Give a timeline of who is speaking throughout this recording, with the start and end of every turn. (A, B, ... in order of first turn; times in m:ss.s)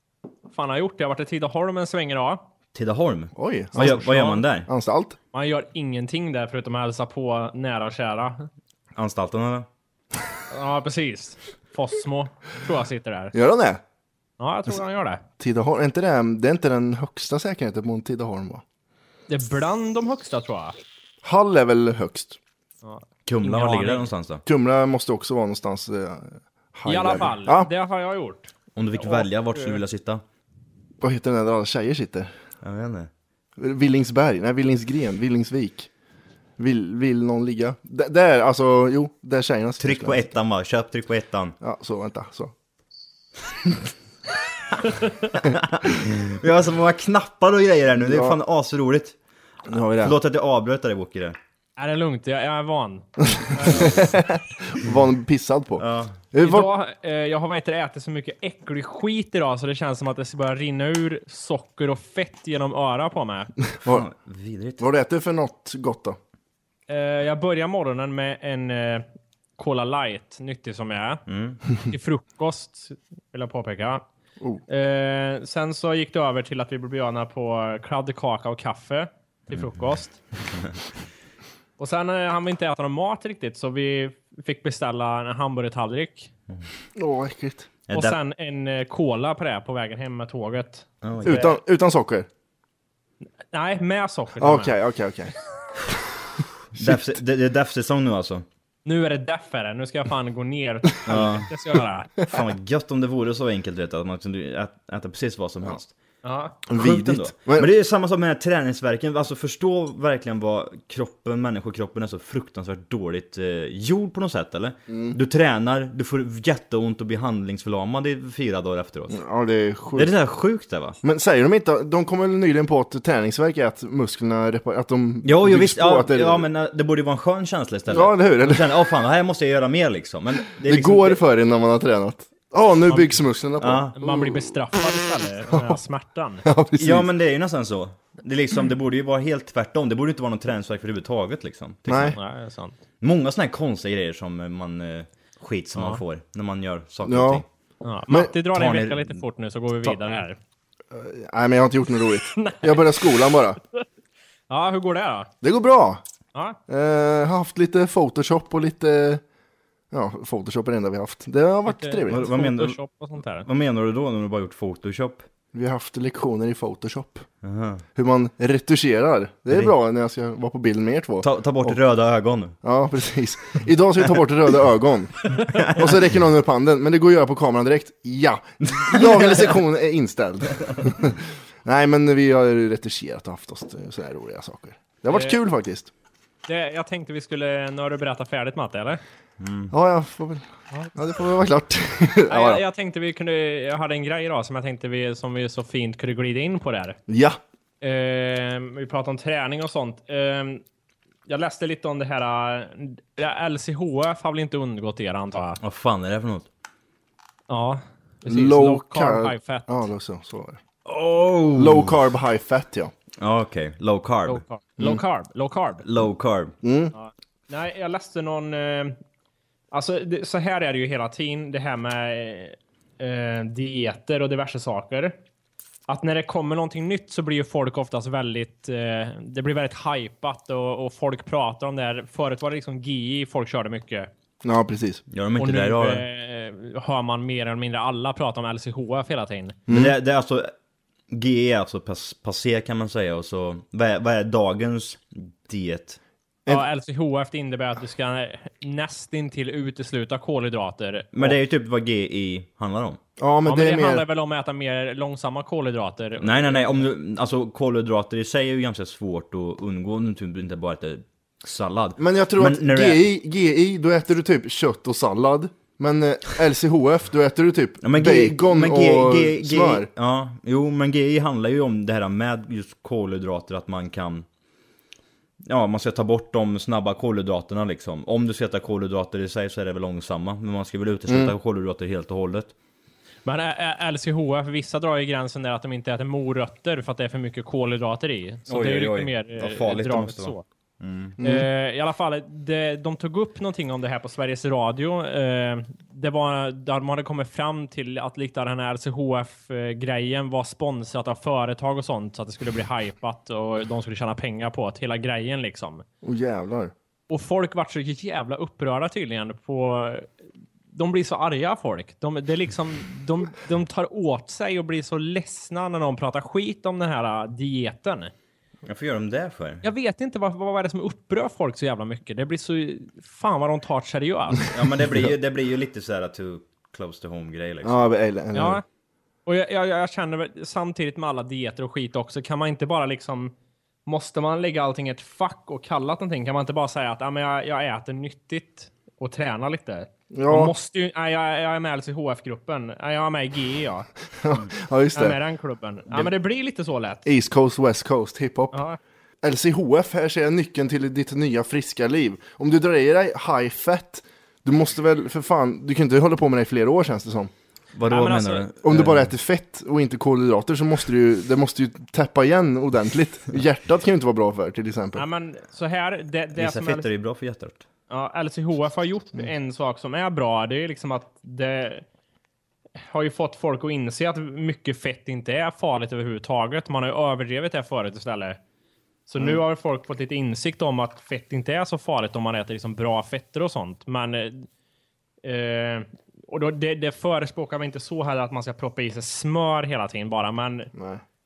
0:00.5-0:02.4 A
0:02.7-0:04.7 B
0:03.4-0:05.2 C
0:05.3-0:08.5 A
0:09.0-0:09.7 B
0:10.5-0:13.3 A
0:13.3-0:13.8 C
0:14.4-0:15.2 A
0:15.4-0:18.6 C
0:19.3-0:20.8 A
0:21.2-0:22.4 C
0:22.8-0:24.0 A
0:23.2-0:24.4 B
0:24.4-0:27.7 C
0:26.8-0:29.8 A
0:28.8-0:30.2 B
0:31.0-0:32.3 C
0:32.6-0:33.1 B
0:33.6-0:35.9 C
0:36.6-0:40.3 C
0:39.8-0:41.5 B
0:41.6-0:42.5 C
0:45.5-0:49.2 B
0:48.0-0:48.4 C
0:49.7-0:50.2 C
0:50.0-0:51.4 B
0:51.8-0:54.0 A
0:53.4-0:56.7 C
0:55.8-0:56.2 B
0:56.4-1:03.5 A
1:03.8-1:04.8 B
1:04.8-1:06.2 C
1:06.9-1:09.0 A
1:09.6-1:11.2 A
1:11.3-1:11.6 B
1:11.8-1:14.0 A
1:14.7-1:20.2 A
1:19.5-1:19.9 B
1:21.8-1:26.3 A
1:27.0-1:27.7 C
1:27.9-1:28.2 B
1:27.9-1:30.9 A
1:31.0-1:31.6 B
1:31.2-1:32.3 C
1:33.5-1:34.7 A
1:34.4-1:35.3 C
1:36.7-1:38.4 B
1:36.8-1:37.0 C
1:38.8-1:42.1 A
1:41.0-1:41.5 B
1:42.3-1:45.9 B
1:46.2-1:46.6 A
1:46.6-1:47.7 C
1:46.7-1:59.2 B
1:54.9-1:55.2 C
1:59.1-2:00.1 C
1:59.9-2:01.0 B
2:01.0-2:06.5 C
2:05.2-2:11.2 B
2:07.9-2:08.8 C
2:10.6-2:14.5 C
2:13.6-2:14.0 B
2:14.0-2:16.4 A
2:15.5-2:15.8 C
2:16.4-2:17.1 C
2:16.8-2:22.2 B
2:21.9-2:22.2 C
2:22.0-2:22.7 A
2:23.0-2:27.4 B
2:25.8-2:26.0 A
2:27.0-2:27.4 C
2:27.8-2:30.4 A
2:28.5-2:29.2 B
2:30.9-2:33.6 C
2:32.4-2:32.8 A
2:34.5-2:35.3 A
2:35.4-2:36.0 C
2:36.7-2:39.2 C
2:39.9-2:42.3 C
2:41.7-2:43.5 A
2:42.1-2:42.8 B
2:43.4-2:45.2 B
2:45.5-2:47.2 C
2:47.4-2:47.8 B
2:48.0-2:51.8 C
2:51.2-2:52.6 B
2:52.6-3:05.9 C
2:55.4-2:56.0 B
2:58.6-2:59.5 B
3:05.1-3:05.4 A
3:06.4-3:09.0 A
3:09.4-3:09.7 B
3:09.7-3:12.6 C
3:12.3-3:17.0 A
3:17.1-3:17.4 C
3:17.8-3:20.6 A
3:21.3-3:25.6 A
3:25.6-3:26.5 B
3:27.5-3:29.7 A
3:28.2-3:30.6 C
3:30.8-3:32.0 B
3:31.5-3:32.9 C
3:33.2-3:34.4 B
3:34.3-3:35.8 A
3:35.8-3:36.5 B
3:36.6-3:36.9 C
3:36.9-3:39.0 A
3:39.7-3:45.2 A
3:45.9-3:54.1 A
3:54.4-3:55.0 C
3:55.1-3:56.0 B
3:55.4-3:59.6 A
3:59.7-3:59.9 C
3:59.7-4:00.5 B
4:01.1-4:06.0 B
4:06.5-4:11.1 A
4:11.1-4:13.0 B
4:13.2-4:14.0 C
4:13.4-4:16.8 A
4:16.2-4:23.1 B
4:22.0-4:29.9 C
4:27.8-4:34.2 B
4:35.4-4:42.5 B
4:41.1-4:41.3 C
4:43.2-4:50.4 A
4:48.5-4:51.2 B
4:51.2-4:51.5 C
4:51.2-5:05.8 A
5:06.0-5:06.7 C
5:07.1-5:10.1 A
5:10.7-5:18.1 A
5:18.6-5:19.6 B
5:19.6-5:24.5 A
5:24.5-5:27.9 B
5:27.6-5:28.6 C
5:28.3-5:28.6 A
5:29.2-5:33.3 A
5:33.8-5:43.9 A
5:40.1-5:40.5 C
5:44.2-5:45.2 C
5:44.9-5:47.0 A
5:47.0-5:48.6 C
5:48.5-5:48.8 A
5:49.2-5:57.3 C
5:57.7-5:59.1 B
5:57.9-5:58.4 A
5:58.6-6:05.0 C
6:05.0-6:06.9 A
6:06.3-6:07.6 B
6:07.9-6:11.8 A
6:12.9-6:18.4 A
6:19.1-6:24.5 A
6:25.2-6:30.7 A
6:30.7-6:31.0 C